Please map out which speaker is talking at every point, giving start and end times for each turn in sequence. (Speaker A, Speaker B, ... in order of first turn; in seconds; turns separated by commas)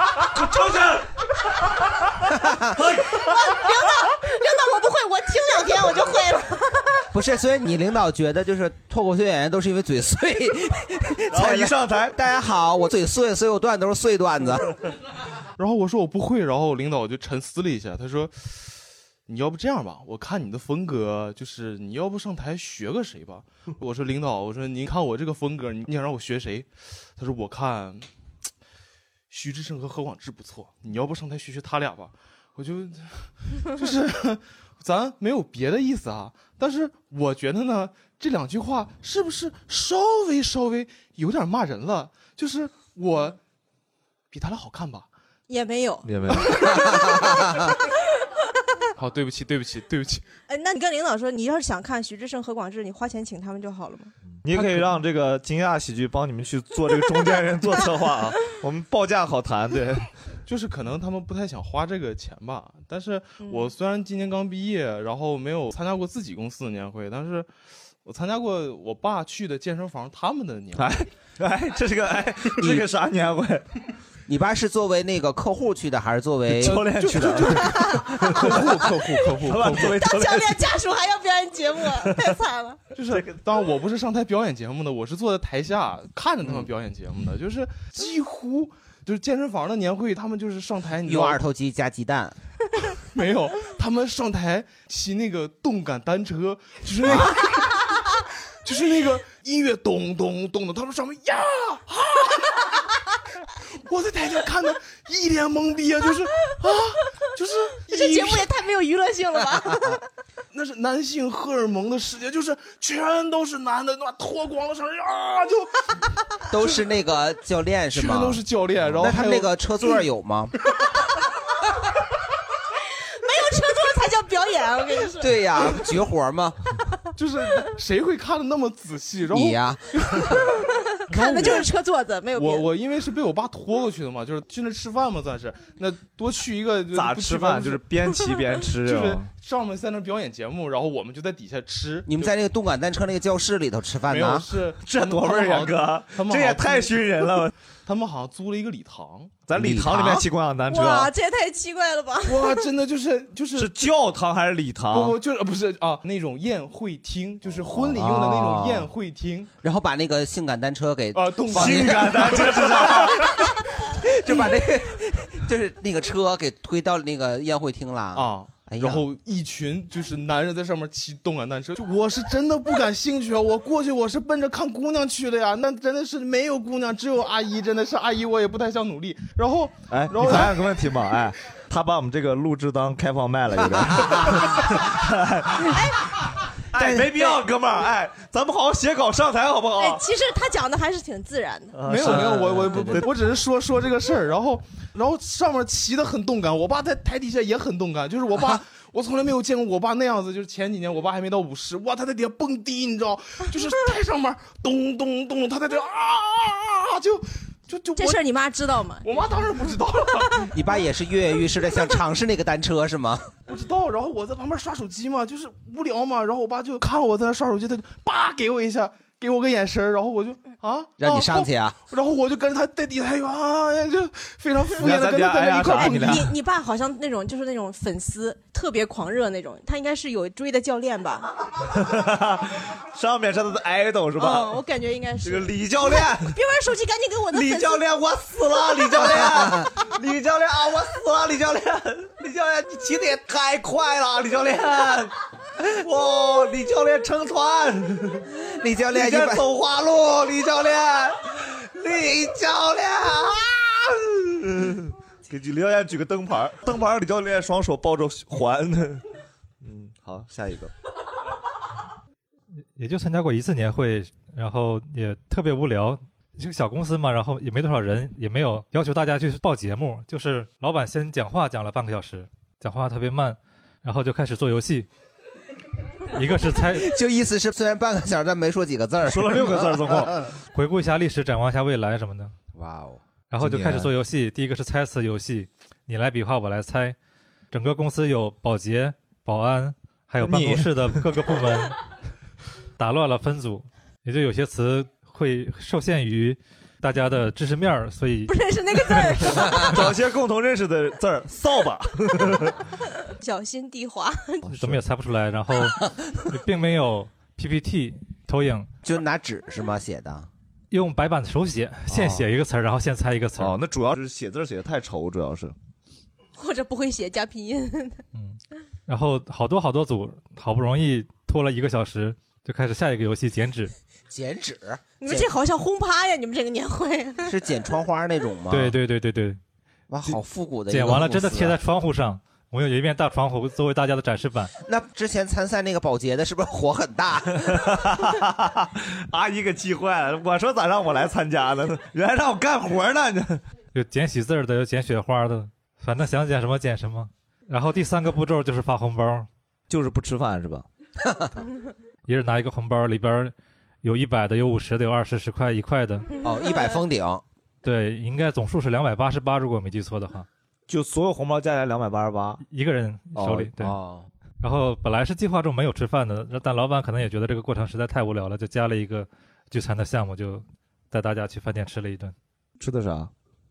Speaker A: 0.3-1.1, Speaker B: 2.3-2.8, Speaker A: 2.8-3.6, Speaker C: 3.2-7.0, Speaker B: 7.1-14.7, Speaker A: 11.3-12.2, Speaker D: 15.6-28.1, Speaker D: 29.3-43.4, Speaker D: 44.3-45.1, Speaker C: 45.5-47.3, Speaker A: 46.0-46.8, Speaker D: 49.0-50.3, Speaker C: 50.5-54.1, Speaker A: 54.4-60.1, Speaker D: 54.5-54.9, Speaker D: 60.5-67.5, Speaker C: 63.4-63.7, Speaker D: 68.0-70.9, Speaker A: 70.8-73.7, Speaker B: 72.6-72.8, Speaker B: 74.3-76.8, Speaker A: 76.5-78.8, Speaker D: 76.6-80.0, Speaker C: 77.7-78.1, Speaker A: 79.4-80.6, Speaker C: 79.9-82.8, Speaker A: 82.0-82.4, Speaker D: 83.0-91.4, Speaker A: 83.1-83.4, Speaker B: 91.0-92.4, Speaker D: 92.9-97.8, Speaker B: 97.0-97.3, Speaker D: 98.6-102.6, Speaker D: 103.8-108.5, Speaker C: 107.9-110.0, Speaker D: 110.5-116.8, Speaker B: 116.5-118.4, Speaker D: 117.9-120.0, Speaker B: 118.9-120.5, Speaker C: 123.2-125.4, Speaker B: 125.2-126.6, Speaker D: 127.2-130.4, Speaker B: 129.3-130.4, Speaker C: 131.0-132.7, Speaker D: 131.1-131.7, Speaker D: 132.3-137.9, Speaker A: 136.9-139.3, Speaker D: 138.8-142.3, Speaker B: 142.1-144.5, Speaker D: 144.1-147.3, Speaker A: 144.8-147.5, Speaker D: 147.8-149.3, Speaker A: 149.5-151.1, Speaker B: 149.5-150.3, Speaker C: 150.7-152.7, Speaker D: 152.2-153.7, Speaker A: 153.6-155.2, Speaker D: 154.9-159.5, Speaker B: 157.7-158.9, Speaker B: 159.6-163.3, Speaker D: 161.1-163.0, Speaker A: 161.5-163.4, Speaker B: 163.9-169.1, Speaker D: 168.1-180.7, Speaker A: 179.9-190.0, Speaker B: 183.9-184.3, Speaker B: 186.7-187.4, Speaker C: 189.8-191.8, Speaker A: 191.8-193.1, Speaker D: 191.8-208.2, Speaker B: 192.7-193.0, Speaker C: 208.0-209.3, Speaker D: 209.0-210.5, Speaker B: 210.5-213.3, Speaker D: 213.5-226.3, Speaker B: 221.0-221.8, Speaker A: 224.8-226.3, Speaker C: 225.6-231.3, Speaker A: 231.7-234.6, Speaker C: 234.2-237.8, Speaker A: 235.2-236.4, Speaker A: 237.3-248.3, Speaker B: 239.2-239.6, Speaker B: 248.4-249.5, Speaker A: 248.9-259.1, Speaker A: 259.6-260.7, Speaker E: 262.8-274.9, Speaker E: 276.1-276.9, Speaker B: 276.7-280.1, Speaker A: 279.1-280.3, Speaker E: 280.5-282.3, Speaker B: 282.5-283.0, Speaker E: 283.3-287.0, Speaker A: 283.4-283.9, Speaker E: 287.5-291.8, Speaker A: 290.2-291.1, Speaker E: 292.8-298.3, Speaker C: 298.3-299.9, Speaker A: 299.5-302.6, Speaker C: 303.2-304.5, Speaker A: 304.4-304.8, Speaker E: 304.5-308.7, Speaker B: 308.8-310.3, Speaker E: 310.7-313.6, Speaker A: 311.9-312.2, Speaker A: 313.4-315.6, Speaker C: 316.4-318.0, Speaker E: 318.1-323.7, Speaker B: 324.1-325.3, Speaker C: 325.0-327.4, Speaker B: 327.3-328.8, Speaker E: 328.5-329.4, Speaker B: 329.9-331.6, Speaker E: 330.7-334.5, Speaker B: 334.7-337.6, Speaker A: 337.4-343.4, Speaker E: 343.7-349.3, Speaker A: 349.7-350.7, Speaker E: 352.1-356.1, Speaker B: 356.2-357.2, Speaker C: 356.2-356.7, Speaker E: 357.6-360.3, Speaker A: 360.7-362.4, Speaker E: 362.5-363.8, Speaker A: 363.1-363.5, Speaker B: 363.6-364.1, Speaker E: 364.4-372.1, Speaker A: 372.6-373.1